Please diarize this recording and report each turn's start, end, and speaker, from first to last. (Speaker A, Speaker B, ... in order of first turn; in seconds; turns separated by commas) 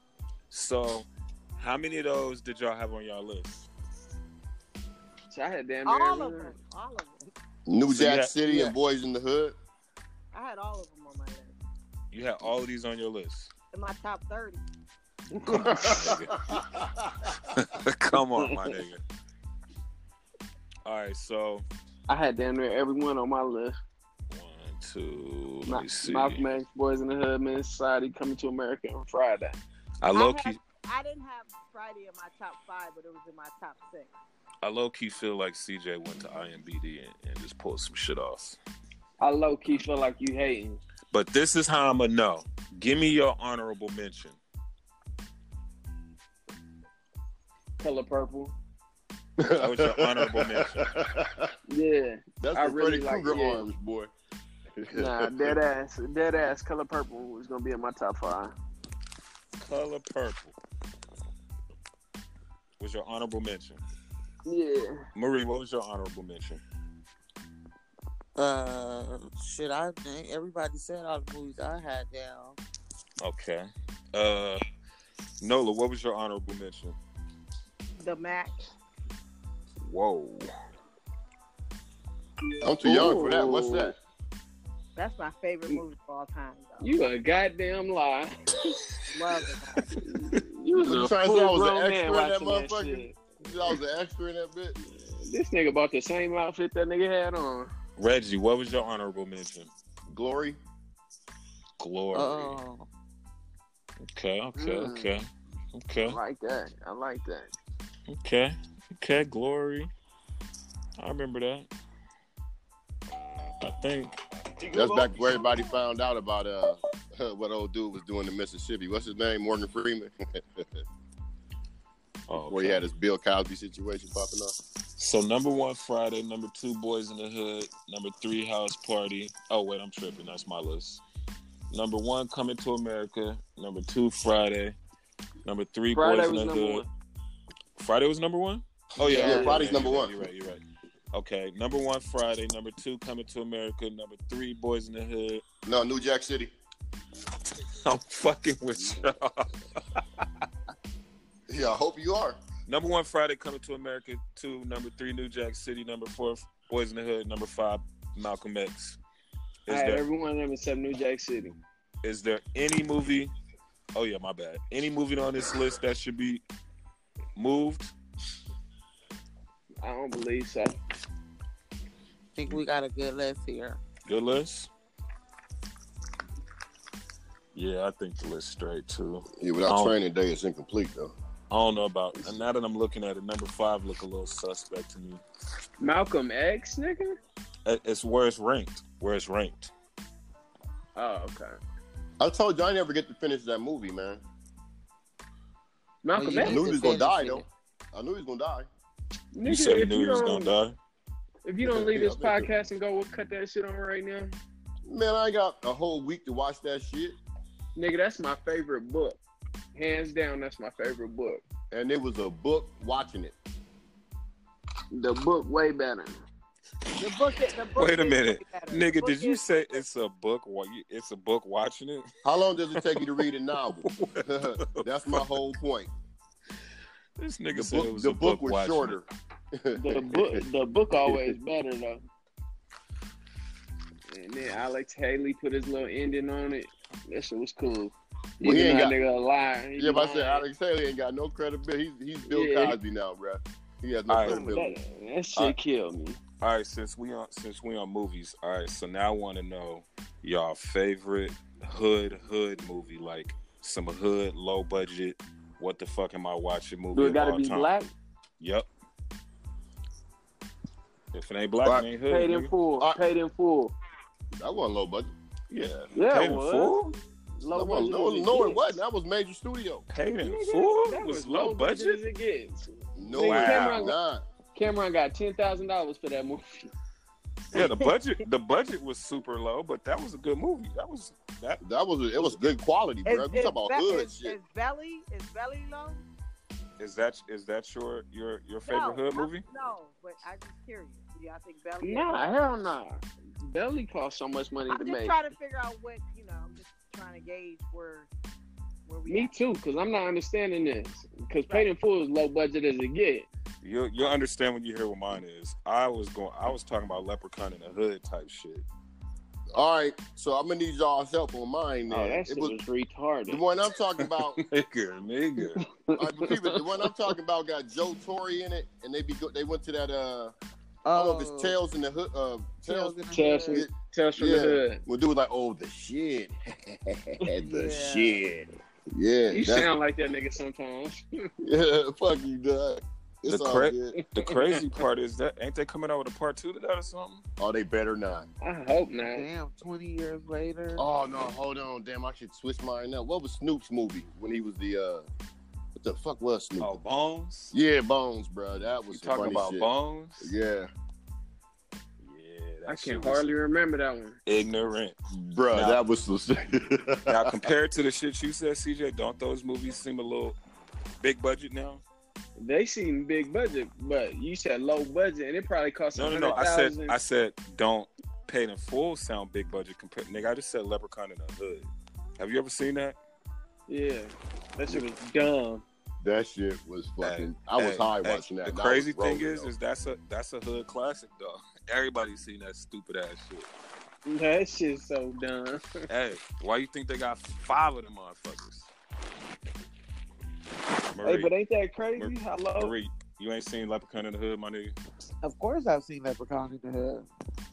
Speaker A: 0.5-3.7, Speaker B: 5.3-6.5, Speaker C: 5.9-7.3, Speaker D: 7.7-9.6, Speaker A: 7.9-8.8, Speaker C: 10.3-11.6, Speaker A: 12.1-13.5, Speaker C: 13.7-14.6, Speaker B: 15.3-16.1, Speaker A: 15.4-16.4, Speaker D: 15.7-17.1, Speaker A: 17.4-19.0, Speaker B: 18.4-18.8, Speaker A: 20.9-21.6, Speaker B: 22.1-23.8, Speaker A: 24.3-26.5, Speaker B: 25.7-29.6, Speaker A: 30.0-30.6, Speaker C: 30.1-34.1, Speaker A: 34.6-38.6, Speaker B: 39.2-40.8, Speaker A: 41.1-44.4, Speaker B: 47.8-48.5, Speaker D: 49.4-51.5, Speaker A: 49.6-50.9, Speaker B: 51.7-53.6, Speaker D: 52.4-54.1, Speaker D: 54.8-55.6, Speaker B: 54.9-58.5, Speaker A: 59.6-60.6, Speaker A: 62.8-63.8, Speaker B: 64.5-65.1, Speaker A: 65.2-66.6, Speaker E: 68.4-72.6, Speaker A: 73.2-74.6, Speaker A: 75.4-77.0, Speaker C: 78.0-78.6, Speaker A: 79.8-80.5, Speaker D: 82.6-84.0, Speaker B: 82.8-84.0, Speaker C: 85.0-87.0, Speaker B: 86.8-88.3, Speaker C: 89.1-89.9, Speaker B: 90.0-93.4, Speaker D: 90.8-94.8, Speaker B: 94.8-97.7, Speaker A: 98.0-99.7, Speaker D: 100.1-100.6, Speaker A: 101.8-102.6, Speaker E: 102.1-102.9, Speaker A: 104.0-106.2, Speaker B: 104.6-105.1, Speaker B: 106.0-107.5, Speaker A: 108.1-109.9, Speaker A: 111.0-111.7, Speaker A: 113.6-114.1, Speaker B: 114.6-115.6, Speaker D: 114.7-120.7, Speaker A: 122.3-122.8, Speaker D: 122.4-124.5, Speaker A: 125.0-131.0, Speaker A: 131.7-134.8, Speaker A: 135.4-136.8, Speaker B: 135.9-136.9, Speaker A: 137.8-140.6, Speaker B: 139.0-139.7, Speaker D: 139.0-140.2, Speaker A: 141.1-145.4, Speaker D: 145.7-146.5, Speaker A: 147.8-149.5, Speaker D: 151.5-152.4, Speaker A: 152.7-159.0, Speaker A: 159.7-160.0, Speaker B: 159.7-161.6, Speaker A: 162.0-163.3, Speaker A: 163.9-166.4, Speaker A: 167.4-167.9, Speaker B: 169.8-170.8, Speaker E: 172.3-173.8, Speaker A: 174.1-174.7, Speaker A: 177.6-180.0, Speaker D: 179.4-181.1, Speaker A: 181.5-185.2, Speaker B: 185.8-187.2, Speaker A: 187.7-189.7, Speaker B: 191.0-191.6, Speaker D: 192.2-194.2, Speaker B: 196.0-196.9, Speaker E: 196.2-197.4, Speaker D: 196.4-198.7, Speaker B: 199.3-200.5, Speaker A: 199.4-200.8, Speaker B: 201.4-204.3, Speaker D: 201.6-202.5, Speaker D: 204.8-207.2, Speaker B: 207.8-209.2, Speaker B: 209.8-211.4, Speaker D: 211.7-213.4, Speaker B: 214.9-216.2, Speaker C: 217.0-219.8, Speaker A: 217.8-222.1, Speaker D: 222.2-225.9, Speaker A: 222.7-223.1, Speaker A: 223.8-225.4, Speaker A: 227.2-229.0, Speaker D: 227.5-231.4, Speaker B: 229.7-232.1, Speaker B: 234.1-240.4, Speaker D: 238.4-238.9, Speaker D: 239.8-244.8, Speaker B: 242.2-242.8, Speaker A: 244.1-244.5, Speaker B: 244.2-246.2, Speaker A: 246.4-257.7, Speaker B: 256.9-257.9, Speaker A: 258.4-258.7, Speaker A: 261.1-262.5, Speaker B: 262.1-263.7, Speaker D: 264.4-265.1, Speaker A: 265.5-266.8, Speaker B: 265.9-268.7, Speaker D: 267.5-269.9, Speaker A: 269.9-272.0, Speaker B: 270.2-273.9, Speaker D: 273.0-274.2, Speaker A: 273.2-273.9, Speaker B: 274.6-276.7, Speaker C: 277.5-277.9, Speaker A: 277.5-281.6, Speaker D: 281.6-284.4, Speaker C: 283.1-286.0, Speaker A: 286.8-289.4, Speaker C: 288.7-292.3, Speaker B: 291.8-295.1, Speaker C: 294.7-298.1, Speaker C: 298.9-299.3, Speaker B: 299.1-303.3, Speaker A: 303.6-308.6, Speaker D: 309.5-312.5, Speaker B: 311.9-313.4, Speaker D: 313.3-314.4, Speaker A: 314.0-315.6, Speaker B: 315.5-316.9, Speaker D: 316.0-320.3, Speaker E: 320.9-321.6, Speaker D: 320.9-329.7, Speaker E: 322.7-323.6, Speaker B: 323.1-324.8, Speaker E: 327.5-328.2, Speaker B: 329.3-331.2, Speaker D: 331.4-334.0, Speaker A: 333.3-337.2, Speaker B: 334.0-334.7, Speaker D: 337.4-338.3, Speaker B: 338.4-339.3, Speaker E: 339.1-340.9, Speaker D: 340.8-345.1, Speaker D: 345.8-346.7, Speaker A: 346.6-347.6, Speaker D: 347.5-349.7, Speaker A: 348.9-350.3, Speaker D: 350.2-350.7, Speaker A: 352.0-353.3, Speaker B: 352.7-354.2, Speaker A: 354.3-355.0, Speaker D: 355.1-357.5, Speaker A: 355.5-355.8, Speaker A: 357.1-360.4, Speaker A: 361.0-361.8, Speaker B: 362.4-367.0, Speaker A: 365.9-373.0, Speaker B: 373.7-375.6, Speaker D: 376.0-379.5, Speaker A: 377.0-383.5, Speaker B: 384.1-385.8, Speaker A: 385.9-388.7, Speaker A: 390.9-391.3, Speaker B: 391.0-392.8, Speaker A: 392.0-394.8, Speaker E: 395.2-397.1